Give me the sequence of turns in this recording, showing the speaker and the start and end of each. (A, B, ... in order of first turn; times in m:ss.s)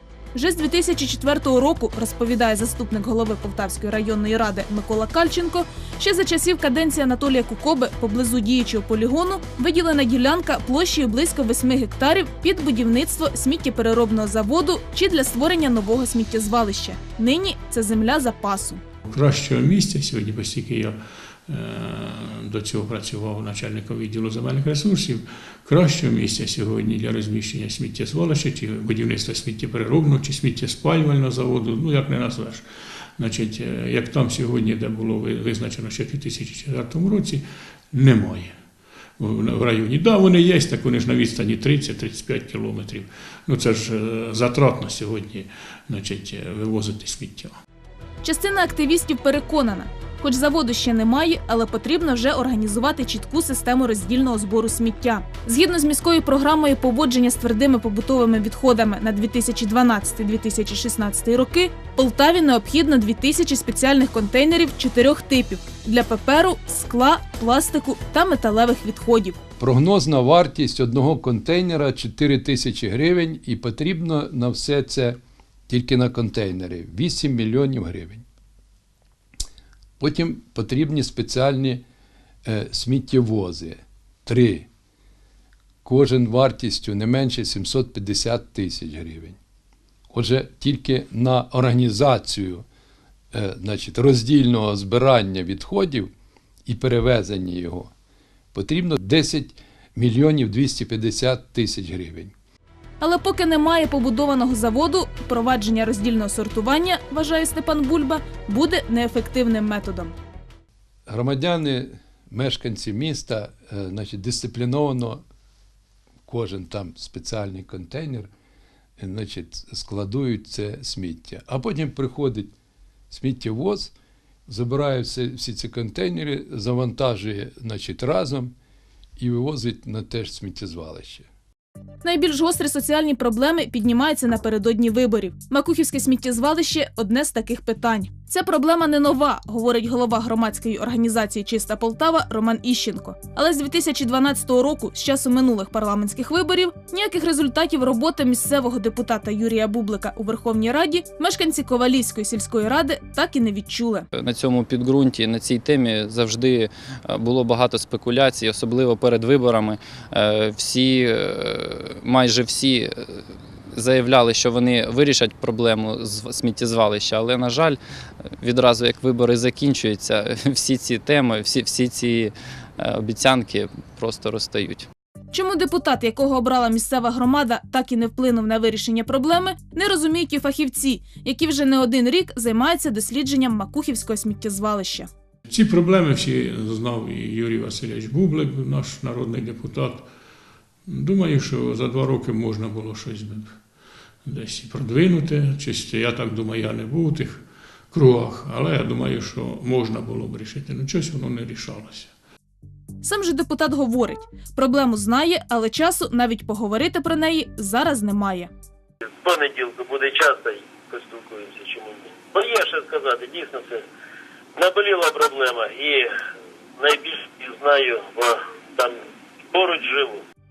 0:00.4-0:18.8 A
0:19.1-0:32.6 B
0:33.2-0:38.6 B
0:39.2-0:47.6 B
0:48.2-1:09.4 A
1:09.6-1:18.2 C
1:20.0-1:21.8 C
1:22.4-1:24.7 C
1:25.8-1:29.4 C
1:30.1-1:32.6 C
1:33.3-1:36.1 C
1:36.7-1:37.9 C
1:38.5-1:42.3 C
1:43.0-1:50.1 A
1:51.1-1:55.2 C
1:56.3-1:58.3 C
1:59.0-2:02.5 C
2:03.1-2:03.9 C
2:04.5-2:08.5 C
2:09.2-2:11.3 C
2:12.0-2:34.1 A
2:34.1-2:43.2 D
2:43.7-2:47.8 D
2:48.4-2:54.9 D
2:55.3-3:05.1 A
3:05.5-3:10.1 B
3:10.9-3:13.6 B
3:14.2-3:22.1 B
3:23.0-3:28.5 A
3:29.2-3:33.8 E
3:34.6-3:36.2 E
3:36.8-3:40.2 E